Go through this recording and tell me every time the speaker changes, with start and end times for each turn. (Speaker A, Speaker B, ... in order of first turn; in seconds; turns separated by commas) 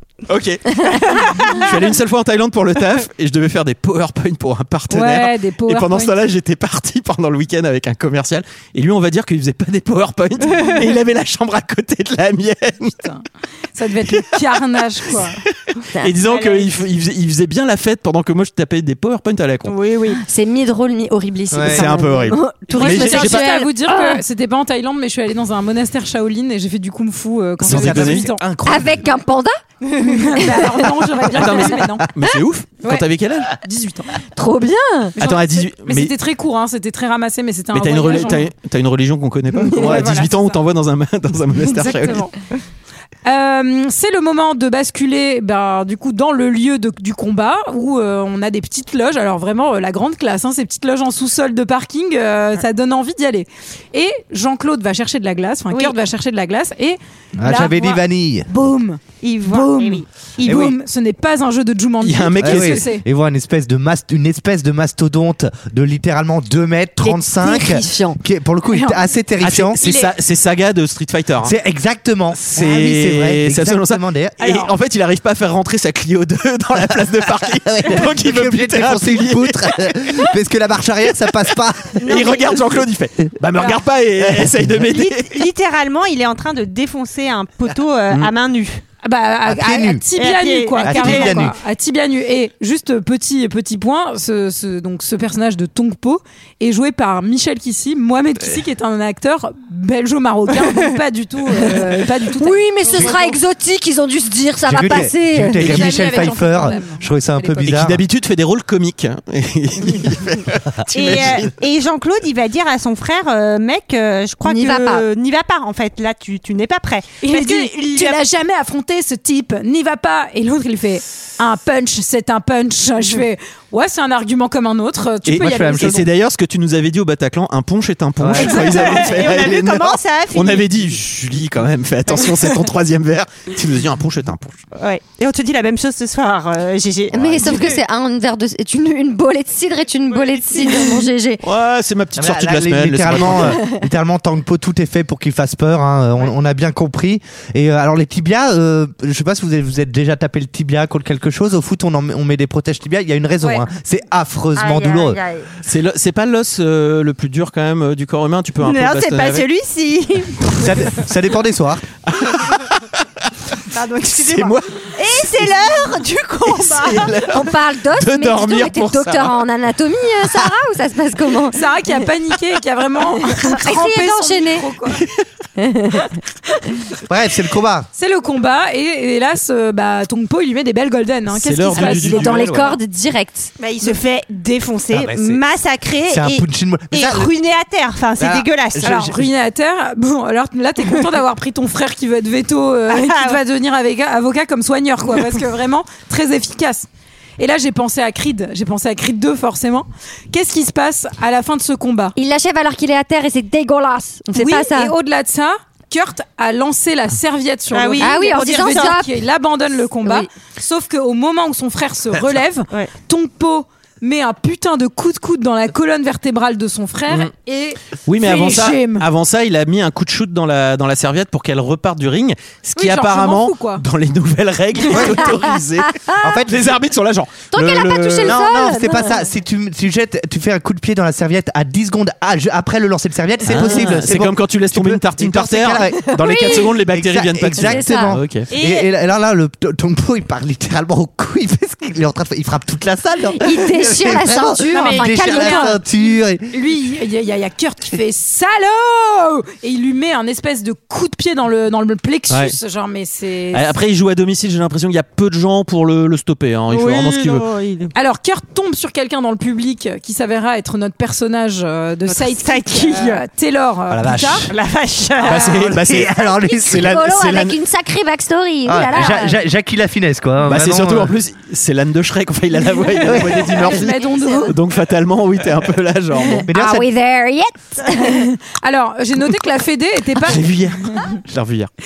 Speaker A: 0.3-12.9, Speaker B: 1.0-1.7, Speaker C: 4.9-6.1, Speaker C: 12.8-13.2, Speaker C: 13.7-15.4, Speaker A: 14.1-14.4, Speaker A: 16.0-19.7, Speaker B: 19.7-20.2, Speaker D: 20.2-24.2, Speaker E: 21.5-21.9, Speaker A: 21.6-23.5, Speaker C: 22.8-28.4, Speaker E: 27.6-29.0, Speaker A: 27.6-28.2, Speaker D: 28.6-29.5, Speaker C: 29.9-32.0, Speaker D: 30.2-30.8, Speaker A: 31.3-33.5, Speaker C: 33.6-34.2, Speaker D: 34.4-35.2, Speaker C: 35.2-38.5, Speaker A: 35.2-36.1, Speaker A: 37.7-42.2, Speaker C: 39.8-40.3, Speaker B: 39.8-40.3, Speaker C: 41.7-42.3, Speaker C: 43.2-63.0, Speaker B: 55.7-56.0, Speaker E: 57.4-58.5, Speaker B: 59.2-60.6, Speaker E: 60.4-60.8, Speaker A: 62.0-62.8, Speaker E: 62.4-69.8, Speaker D: 67.0-68.2, Speaker C: 68.7-69.0, Speaker A: 69.4-71.5, Speaker C: 69.8-70.1, Speaker E: 71.4-74.4, Speaker A: 72.3-80.0, Speaker E: 77.5-82.5, Speaker A: 82.0-85.4, Speaker B: 82.0-82.8, Speaker E: 84.2-84.7, Speaker B: 84.8-88.8, Speaker C: 89.0-103.3, Speaker E: 89.5-90.0, Speaker B: 90.2-91.5, Speaker E: 90.8-91.5, Speaker D: 102.4-106.2, Speaker E: 104.6-108.0, Speaker C: 105.6-107.7, Speaker A: 107.6-111.5, Speaker B: 110.9-118.2, Speaker D: 114.5-115.0, Speaker C: 117.2-126.1, Speaker A: 125.3-134.6, Speaker E: 125.3-126.0, Speaker E: 128.2-128.8, Speaker B: 128.4-130.8, Speaker B: 132.2-132.4, Speaker B: 134.8-137.8, Speaker A: 137.1-137.4, Speaker D: 137.1-141.4, Speaker B: 140.2-141.0, Speaker A: 141.4-143.6, Speaker E: 142.2-155.2, Speaker B: 154.6-155.5, Speaker A: 155.6-159.5, Speaker B: 158.6-160.7, Speaker E: 160.5-161.8, Speaker A: 162.1-163.3, Speaker B: 163.7-167.3, Speaker A: 164.1-164.7, Speaker A: 166.5-169.4, Speaker D: 167.3-171.9, Speaker C: 171.5-175.1, Speaker D: 173.2-174.7, Speaker D: 175.6-176.2, Speaker E: 177.1-177.9, Speaker C: 177.9-182.6, Speaker A: 181.3-182.7, Speaker D: 181.7-183.5, Speaker B: 183.6-188.9, Speaker E: 184.9-185.4, Speaker E: 186.1-187.3, Speaker E: 188.2-189.3, Speaker C: 188.8-196.9, Speaker B: 192.9-193.4, Speaker C: 197.4-202.1, Speaker D: 202.2-204.9, Speaker C: 204.3-219.1, Speaker B: 207.7-209.0, Speaker D: 208.0-209.1, Speaker A: 218.0-228.4, Speaker C: 222.8-223.8, Speaker E: 224.9-225.3, Speaker D: 226.0-226.4, Speaker E: 226.2-226.8, Speaker D: 227.5-229.1, Speaker E: 228.2-246.5, Speaker A: 233.4-238.5, Speaker D: 236.1-236.8, Speaker D: 237.6-238.2, Speaker B: 238.5-238.9, Speaker D: 243.4-245.8, Speaker B: 244.7-245.6, Speaker C: 245.3-245.6, Speaker C: 246.5-253.7, Speaker A: 252.3-252.5, Speaker A: 253.5-257.5, Speaker B: 256.7-257.9, Speaker C: 257.9-264.5, Speaker B: 262.1-263.2, Speaker E: 263.9-264.5, Speaker B: 264.5-265.6, Speaker A: 265.2-267.6, Speaker E: 265.2-267.2, Speaker D: 266.1-269.4, Speaker E: 268.6-271.1, Speaker A: 270.4-276.4, Speaker C: 272.9-274.6, Speaker E: 273.0-273.5, Speaker D: 274.0-274.5, Speaker D: 276.3-278.3, Speaker E: 276.4-276.9, Speaker C: 277.9-281.2, Speaker A: 280.3-281.7